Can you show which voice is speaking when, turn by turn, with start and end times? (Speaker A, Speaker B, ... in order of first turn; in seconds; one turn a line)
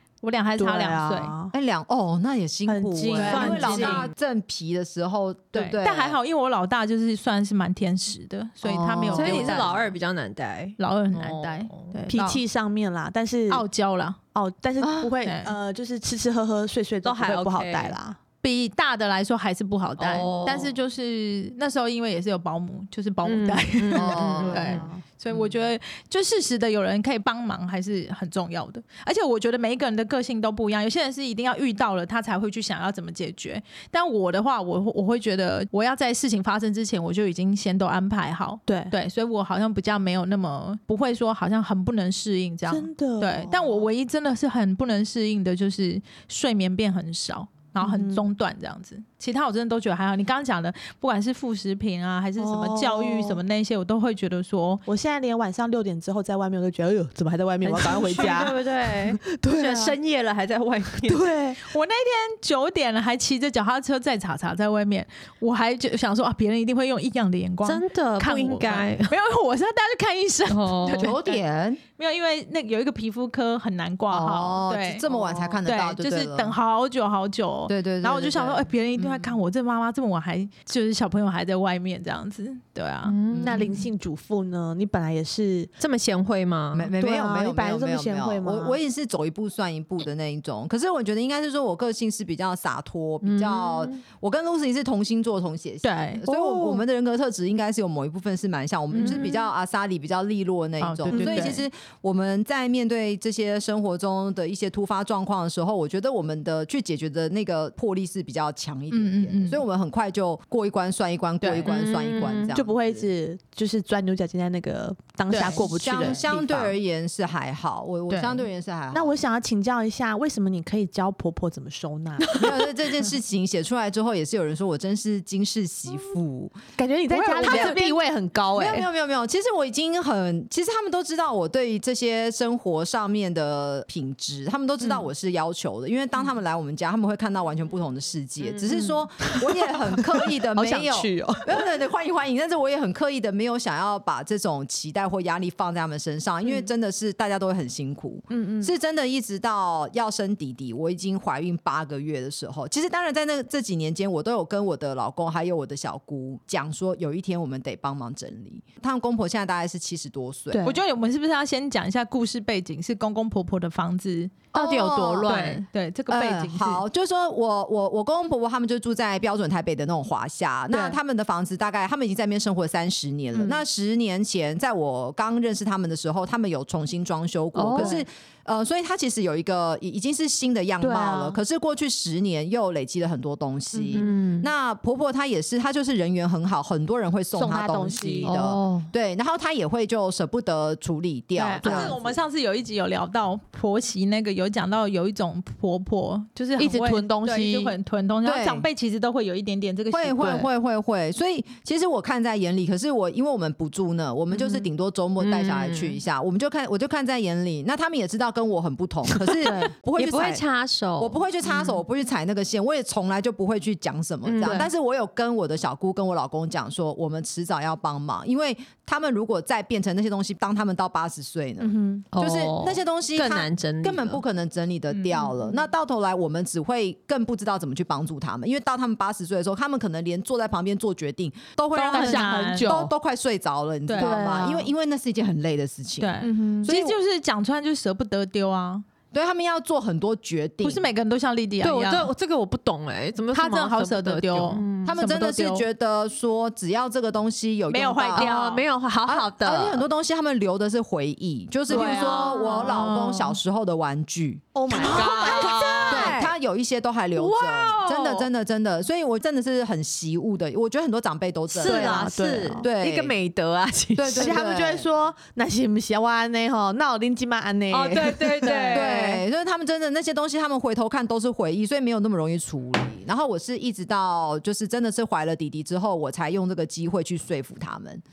Speaker A: 0.2-1.3
Speaker B: 0.6-1.5
Speaker C: 1.5-6.2
Speaker B: 2.7-4.0
Speaker D: 3.2-4.1
Speaker A: 3.2-4.1
Speaker A: 5.5-9.9
Speaker D: 8.8-11.9
Speaker C: 8.9-9.7
Speaker B: 9.1-9.5
Speaker A: 10.8-12.4
Speaker B: 12.1-13.7
Speaker A: 13.5-14.2
Speaker B: 14.3-18.2
Speaker C: 14.8-15.1
Speaker A: 15.2-15.6
Speaker D: 17.0-18.0
Speaker A: 18.4-54.8
Speaker D: 20.0-20.7
Speaker D: 23.2-24.9
Speaker C: 23.9-24.8
Speaker B: 24.4-25.0
Speaker B: 38.7-38.9
Speaker B: 42.7-43.8
Speaker B: 47.8-48.3
Speaker B: 52.4-53.4
Speaker B: 54.9-60.0
Speaker D: 57.6-61.3
Speaker A: 57.8-58.5
Speaker B: 61.1-61.6
Speaker A: 61.6-71.4
Speaker D: 67.7-69.1
Speaker D: 70.5-71.2
Speaker C: 71.0-71.8
Speaker A: 72.0-75.0
Speaker C: 74.1-76.5
Speaker A: 75.6-83.2
Speaker C: 77.7-79.3
Speaker D: 83.0-83.9
Speaker C: 83.3-83.7
Speaker B: 83.4-85.7
Speaker D: 85.8-86.9
Speaker C: 86.7-113.0
Speaker B: 87.0-88.8
Speaker D: 93.2-94.0
Speaker A: 95.8-96.2
Speaker B: 96.2-96.8
Speaker D: 99.0-99.4
Speaker A: 100.8-101.6
Speaker B: 101.1-101.6
Speaker A: 108.9-109.6
Speaker A: 111.4-111.7
Speaker D: 111.7-112.5
Speaker B: 112.5-116.7
Speaker A: 115.3-115.7
Speaker C: 115.3-119.2
Speaker A: 118.1-118.4
Speaker B: 118.9-122.4
Speaker C: 122.3-126.6
Speaker B: 126.8-128.9
Speaker A: 127.1-127.9
Speaker C: 127.4-127.8
Speaker D: 127.4-127.7
Speaker C: 128.5-160.7
Speaker D: 138.4-139.0
Speaker B: 139.3-141.6
Speaker B: 148.3-148.7
Speaker B: 160.5-160.8
Speaker A: 160.6-164.4
Speaker C: 164.5-165.3
Speaker D: 164.5-165.6
Speaker A: 165.3-166.8
Speaker C: 166.1-192.0
Speaker B: 170.7-171.0
Speaker B: 173.3-173.6
Speaker D: 177.6-177.9
Speaker B: 177.7-178.0
Speaker B: 180.8-181.4
Speaker B: 183.7-184.1
Speaker D: 183.9-184.5
Speaker B: 187.3-188.4
Speaker D: 188.2-188.9
Speaker A: 191.3-200.5
Speaker B: 191.6-192.0
Speaker B: 196.6-197.8
Speaker C: 198.2-198.7
Speaker C: 199.9-210.4
Speaker D: 205.2-206.0
Speaker B: 209.3-209.7
Speaker D: 210.0-211.8
Speaker C: 211.0-237.0
Speaker D: 214.3-214.7
Speaker B: 214.4-214.7
Speaker B: 221.6-222.0
Speaker D: 222.1-224.2
Speaker A: 224.9-225.4
Speaker A: 231.7-232.8
Speaker B: 231.9-232.9
Speaker A: 233.9-234.2
Speaker B: 234.0-234.7
Speaker A: 236.0-238.8
Speaker B: 236.2-236.7
Speaker C: 239.1-240.8
Speaker A: 240.6-242.1
Speaker D: 241.6-245.0
Speaker A: 243.3-245.7
Speaker C: 244.8-248.3
Speaker A: 247.7-248.6
Speaker D: 248.2-249.9
Speaker C: 249.1-263.1
Speaker D: 251.7-253.2
Speaker A: 251.7-252.3
Speaker B: 254.6-256.2
Speaker D: 254.7-256.3
Speaker D: 257.2-258.3
Speaker D: 261.5-264.4
Speaker B: 261.6-262.6
Speaker C: 264.0-264.9
Speaker B: 264.1-268.9
Speaker D: 267.7-269.2
Speaker C: 268.7-278.0